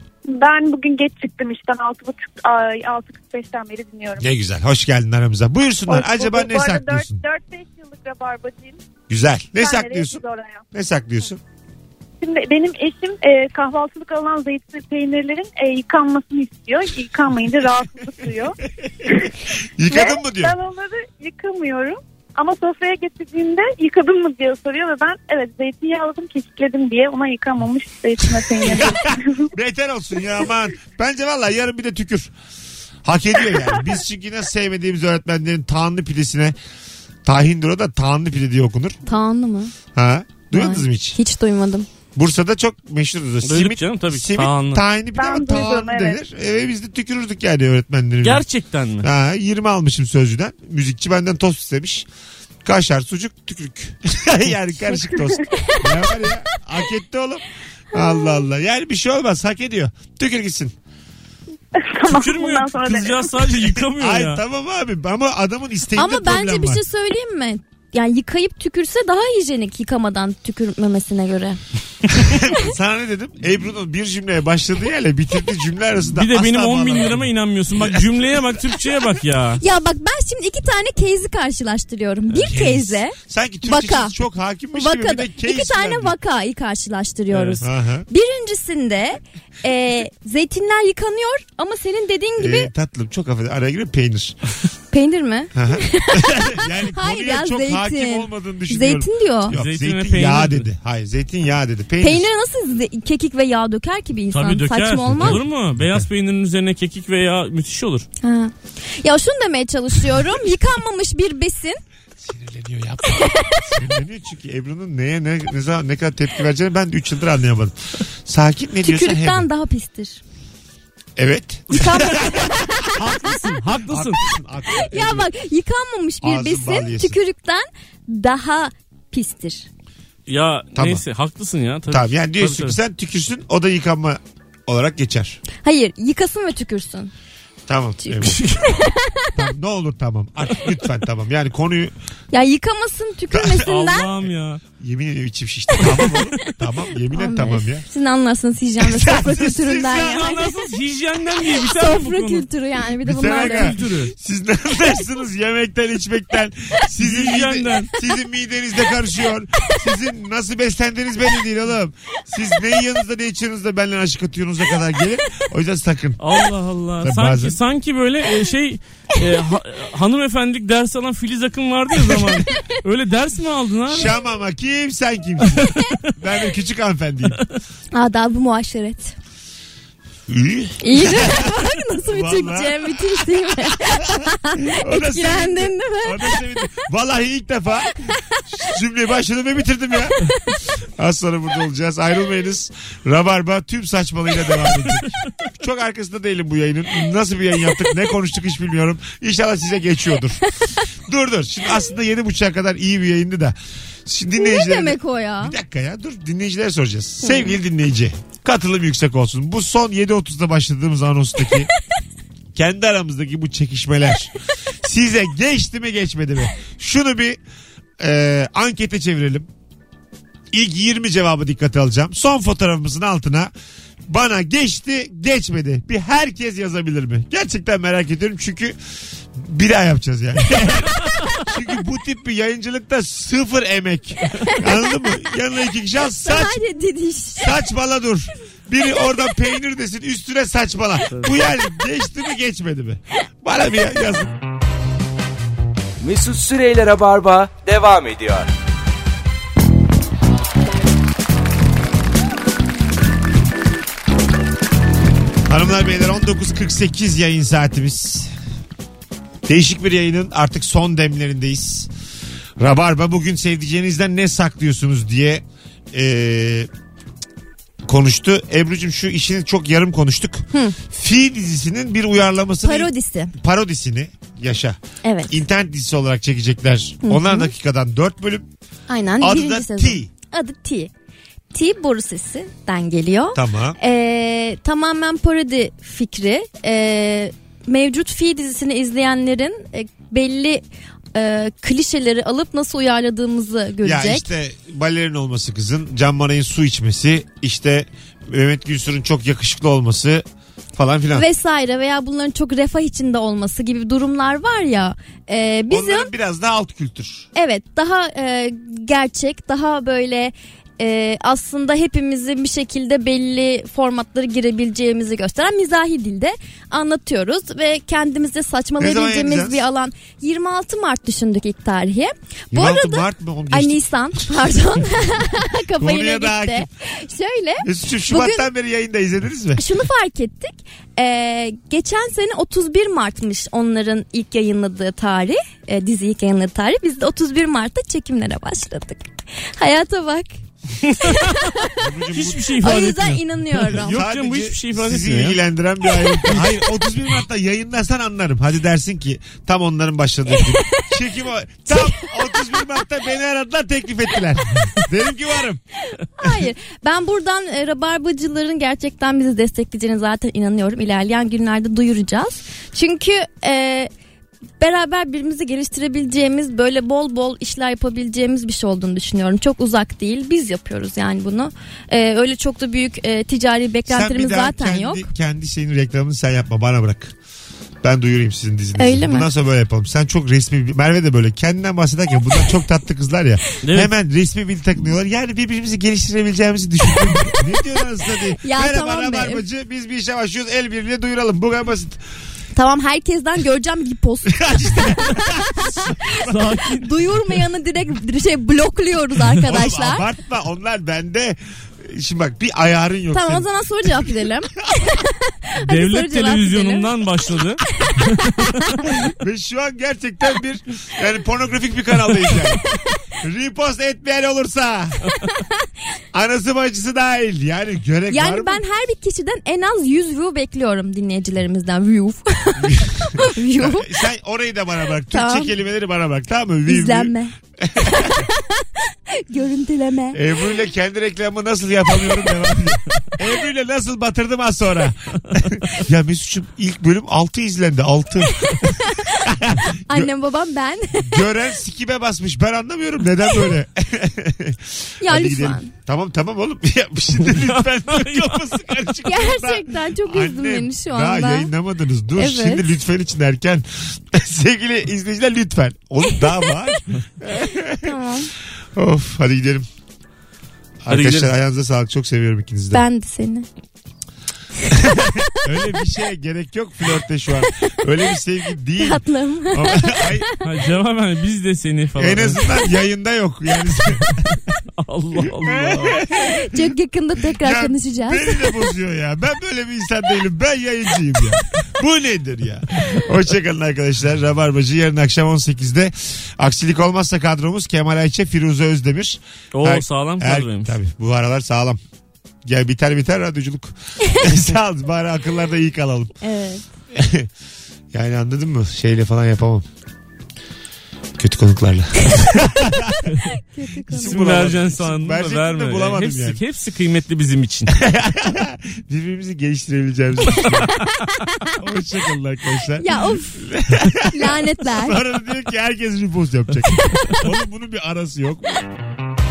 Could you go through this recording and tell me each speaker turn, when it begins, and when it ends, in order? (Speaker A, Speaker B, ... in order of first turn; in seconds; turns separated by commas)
Speaker A: 0.3-4.3, Speaker B: 4.2-7.2, Speaker A: 5.9-8.8, Speaker B: 9.1-11.4, Speaker A: 9.5-10.7, Speaker A: 12.2-19.3, Speaker B: 18.8-20.6, Speaker A: 19.9-29.5, Speaker B: 28.6-32.3, Speaker B: 33.0-36.6, Speaker B: 37.2-39.0, Speaker C: 39.1-39.7, Speaker B: 39.9-41.2, Speaker C: 40.5-41.9, Speaker B: 42.1-48.4, Speaker D: 43.4-44.8, Speaker A: 45.2-46.2, Speaker D: 48.2-49.1, Speaker B: 49.0-52.1, Speaker B: 52.6-60.7, Speaker A: 55.0-55.4, Speaker C: 55.7-56.1, Speaker A: 61.8-63.5, Speaker D: 62.1-64.4, Speaker B: 64.0-66.8, Speaker C: 66.0-71.6, Speaker B: 72.1-78.0, Speaker D: 76.2-79.6, Speaker C: 79.6-84.2, Speaker B: 82.4-86.2, Speaker C: 84.7-92.7, Speaker D: 87.3-87.6, Speaker B: 87.6-88.1, Speaker B: 92.4-94.4, Speaker C: 94.9-99.6, Speaker B: 95.5-102.3, Speaker D: 99.5-100.7, Speaker C: 102.0-105.4, Speaker D: 104.3-108.1, Speaker B: 105.1-106.1, Speaker C: 108.2-111.8, Speaker B: 112.2-119.5, Speaker C: 113.1-113.7, Speaker C: 118.8-120.2, Speaker B: 121.2-125.3, Speaker D: 121.7-122.1, Speaker C: 121.7-122.9, Speaker D: 123.0-124.2, Speaker C: 124.7-129.7, Speaker B: 126.2-127.2, Speaker D: 130.3-132.8, Speaker B: 130.8-131.0, Speaker B: 131.9-135.4, Speaker C: 135.6-137.1, Speaker B: 137.7-138.4, Speaker C: 138.0-139.4, Speaker D: 138.2-138.8, Speaker B: 139.3-141.9, Speaker C: 142.3-144.1, Speaker B: 143.3-143.7, Speaker D: 143.6-144.6, Speaker B: 144.8-147.9, Speaker D: 145.8-146.5, Speaker C: 147.1-150.5, Speaker B: 148.8-150.3, Speaker D: 149.9-152.4, Speaker C: 151.6-153.8, Speaker B: 153.0-166.2, Speaker D: 153.1-154.1, Speaker D: 157.0-157.9, Speaker D: 166.2-174.2, Speaker B: 167.0-167.6, Speaker B: 173.9-177.4, Speaker D: 175.6-175.9, Speaker C: 177.9-179.2, Speaker B: 180.3-211.7, Speaker C: 180.8-186.4, Speaker C: 204.4-205.6, Speaker C: 207.2-207.6, Speaker B: 212.6-217.4, Speaker B: 218.0-219.5, Speaker B: 220.5-223.5, Speaker B: 224.1-228.8, Speaker B: 229.3-236.6, Speaker C: 234.4-235.1, Speaker C: 236.2-237.5, Speaker B: 237.4-244.3, Speaker E: 246.0-248.5, Speaker B: 255.5-258.3, Speaker B: 259.5-261.9, Speaker B: 262.6-266.7, Speaker B: 267.9-278.5, Speaker C: 272.6-273.3, Speaker C: 275.0-275.4, Speaker C: 277.0-277.5, Speaker C: 278.9-280.9, Speaker B: 279.2-280.1, Speaker C: 281.5-294.3, Speaker B: 283.3-283.8, Speaker B: 293.8-300.2, Speaker B: 300.8-301.3, Speaker C: 301.1-306.1, Speaker B: 305.7-307.3, Speaker C: 307.4-328.5, Speaker B: 318.8-319.6, Speaker B: 322.5-324.3, Speaker B: 325.8-326.7, Speaker B: 327.6-329.6, Speaker C: 329.6-340.3, Speaker D: 340.8-341.6, Speaker C: 341.0-341.8, Speaker B: 341.8-342.7, Speaker D: 342.1-345.4, Speaker C: 342.6-344.0, Speaker B: 343.9-355.6, Speaker C: 350.4-350.9, Speaker C: 351.7-352.6, Speaker C: 355.9-363.9, Speaker C: 364.6-375.1, Speaker B: 373.9-377.1, Speaker B: 377.8-392.0, Speaker C: 378.8-379.3, Speaker D: 383.6-383.9, Speaker C: 388.4-389.4, Speaker C: 392.5-400.1, Speaker B: 394.3-396.4, Speaker D: 396.2-397.1, Speaker B: 399.4-403.5, Speaker C: 403.1-406.9, Speaker D: 405.6-408.7, Speaker B: 409.1-415.0, Speaker B: 416.1-418.6, Speaker C: 418.1-423.9, Speaker B: 422.6-428.3, Speaker C: 425.1-425.5, Speaker C: 426.7-430.2, Speaker B: 430.1-440.1, Speaker C: 438.6-439.2, Speaker C: 439.9-441.2, Speaker B: 440.9-457.9, Speaker C: 445.0-445.7, Speaker D: 447.3-448.5, Speaker C: 449.0-451.5, Speaker C: 452.2-452.6, Speaker C: 457.7-458.3, Speaker B: 458.8-459.7, Speaker B: 460.8-462.8, Speaker D: 460.9-461.3, Speaker C: 462.7-463.5, Speaker B: 464.7-470.3, Speaker C: 468.8-470.4, Speaker D: 470.4-472.4, Speaker B: 472.0-474.3, Speaker D: 474.8-476.0, Speaker B: 475.4-476.7, Speaker C: 476.2-478.6, Speaker B: 477.3-491.8, Speaker D: 489.5-490.8, Speaker B: 492.4-496.1, Speaker C: 496.2-496.7, Speaker B: 496.9-497.3, Speaker B: 497.9-499.6, Speaker B: 501.2-503.1, Speaker C: 503.2-504.2, Speaker B: 503.9-506.4, Speaker D: 504.0-507.7, Speaker B: 507.7-510.8, Speaker B: 511.6-518.6, Speaker C: 512.8-513.5, Speaker C: 514.0-515.0